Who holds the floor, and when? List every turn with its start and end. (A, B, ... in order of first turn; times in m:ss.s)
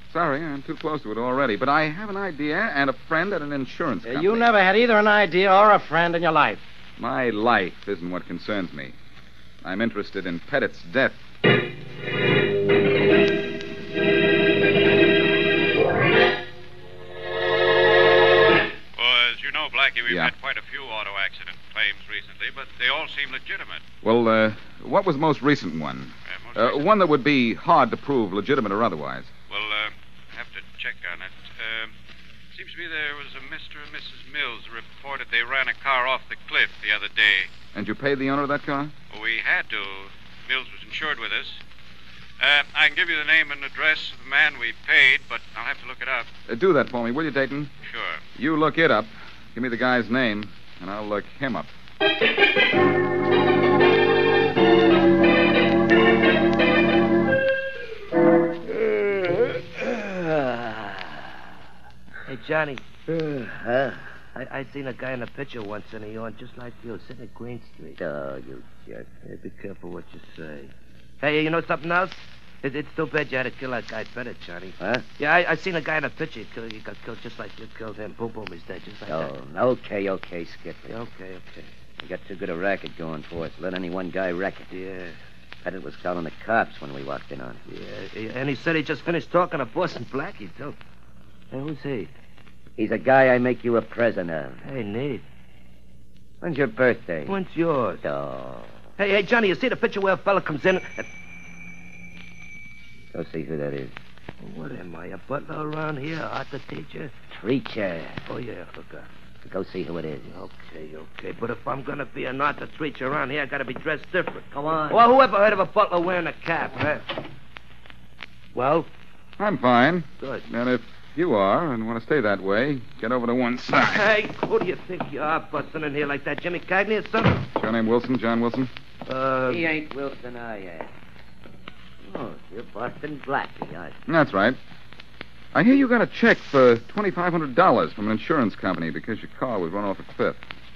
0:00.1-0:04.5 A
0:04.0-0:06.6 B
0:07.0-0:08.9 A
0:09.6-0:11.2 A
0:18.9-0:23.8 C
0:20.1-0:20.3 A
0:24.0-0:29.3 A
0:26.3-0:26.9 C
0:29.5-0:31.9 C
0:32.5-0:37.5 C
0:37.7-0:38.9 A
0:39.1-0:41.6 C
0:42.4-0:46.3 C
0:46.5-0:47.7 A
0:47.8-0:48.2 C
0:48.4-0:51.7 A
0:58.7-1:01.3 D
1:02.3-1:03.0 E
1:03.1-1:04.0 D
1:04.4-1:08.0 E
1:08.0-1:09.1 D
1:09.2-1:19.3 E
1:14.8-1:15.0 D
1:19.1-1:21.0 D
1:20.9-1:21.7 E
1:22.0-1:24.7 D
1:24.7-1:25.2 E
1:25.6-1:27.6 D
1:27.7-1:30.8 E
1:31.5-1:32.1 E
1:32.8-1:34.6 D
1:34.6-1:35.2 E
1:36.4-1:37.4 D
1:37.2-1:38.0 E
1:38.0-1:38.8 D
1:39.0-1:41.1 E
1:43.1-1:43.9 D
1:44.4-1:47.1 E
1:47.3-1:48.2 D
1:48.2-1:49.1 E
1:49.4-1:50.4 D
1:50.2-1:57.0 E
1:54.5-1:55.0 D
1:58.5-1:58.9 E
1:59.4-2:04.1 A
2:00.2-2:00.5 E
2:03.8-2:07.5 E
2:07.6-2:08.7 A
2:09.1-2:09.6 E
2:09.5-2:10.9 D
2:12.0-2:14.0 D
2:14.1-2:14.6 A
2:15.5-2:20.4 A